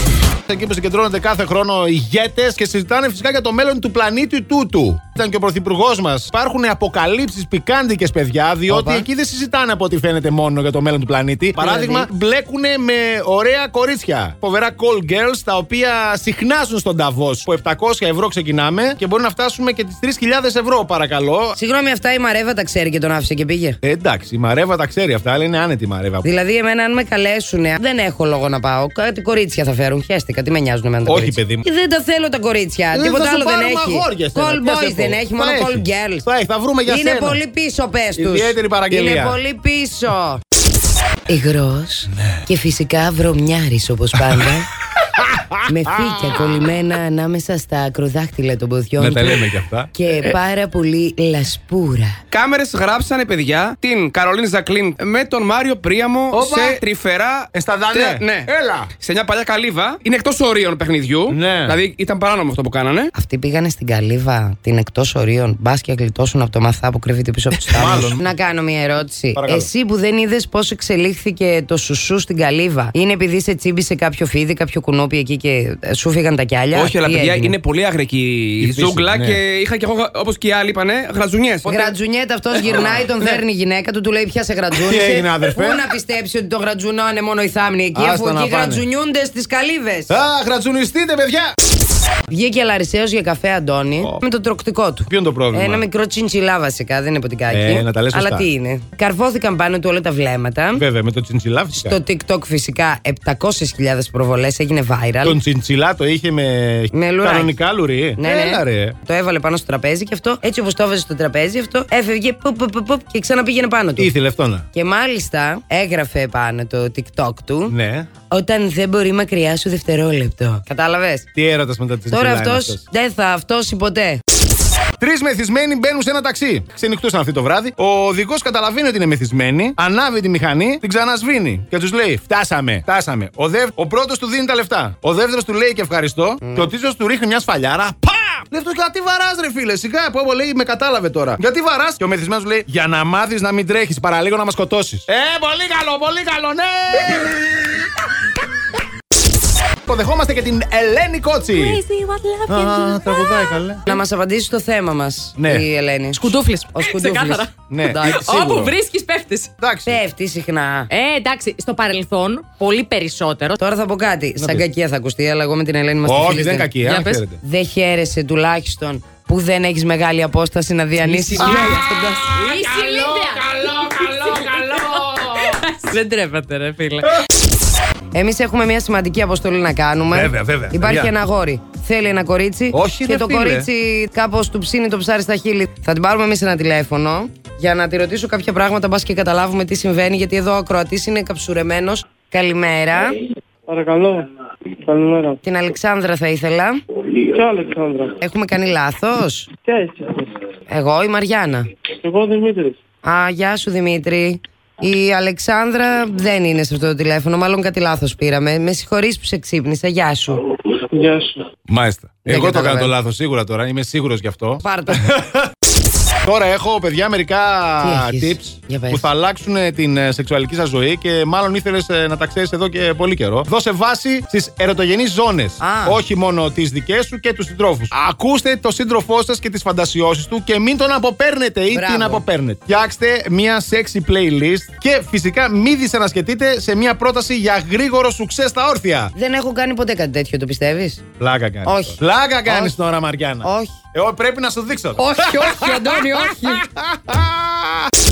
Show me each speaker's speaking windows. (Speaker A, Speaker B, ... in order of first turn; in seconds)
Speaker A: 0.5-21.6, 23.8-26.3, 31.1-31.6, 32.9-37.4, 38.1-39.4, 44.1-46.7, 49.0-49.9, 56.3-56.8, 57.5-58.9, 61.3-61.8, 67.7-68.3, 69.4-69.7, 78.6-79.4, 84.8-85.8, 88.0-88.8, 90.1-91.5, 95.1-95.8, 97.5-98.5, 100.8-102.0, 105.2-109.0, 114.0-114.7, 117.7-118.1, 121.3-122.8, 125.0-147.8, 149.8-151.8, 152.5-154.0, 155.4-155.7, 157.6-158.8, 159.6-160.0, 164.4-164.7, 166.1-167.4, 171.4-175.6, 180.1-181.2, 182.7-183.7, 211.7-215.5, 216.2-239.1, 241.2-247.9
Speaker B: 8.7-9.1, 11.6-12.1, 21.6-23.8, 26.2-36.3, 36.9-40.4, 41.3-44.7, 45.7-49.4, 49.9-52.2, 63.1-77.6, 81.7-90.2, 92.3-100.8, 101.8-105.4, 106.9-107.5, 108.2-114.1, 114.7-117.7, 118.3-121.3, 122.1-124.2, 136.4-136.7, 153.9-158.3, 159.9-160.9, 163.6-172.2, 178.1-193.2, 195.4-196.8, 198.2-199.5, 200.7-201.7, 203.0-210.4, 212.2-212.9, 214.6-215.1, 217.8-219.1, 225.6-226.0, 231.7-232.2, 239.2-241.0, 241.7-242.8, 243.4-243.8, 245.0-246.6
Speaker C: 52.3-63.1, 76.7-82.0, 171.0-171.4
Speaker D: 151.6-153.6, 156.1-159.5, 160.9-163.6, 171.4-173.4, 175.3-177.1
Speaker E: 193.7-194.3, 194.8-195.4, 197.3-198.1, 199.7-200.3, 202.0-202.8, 210.9-211.3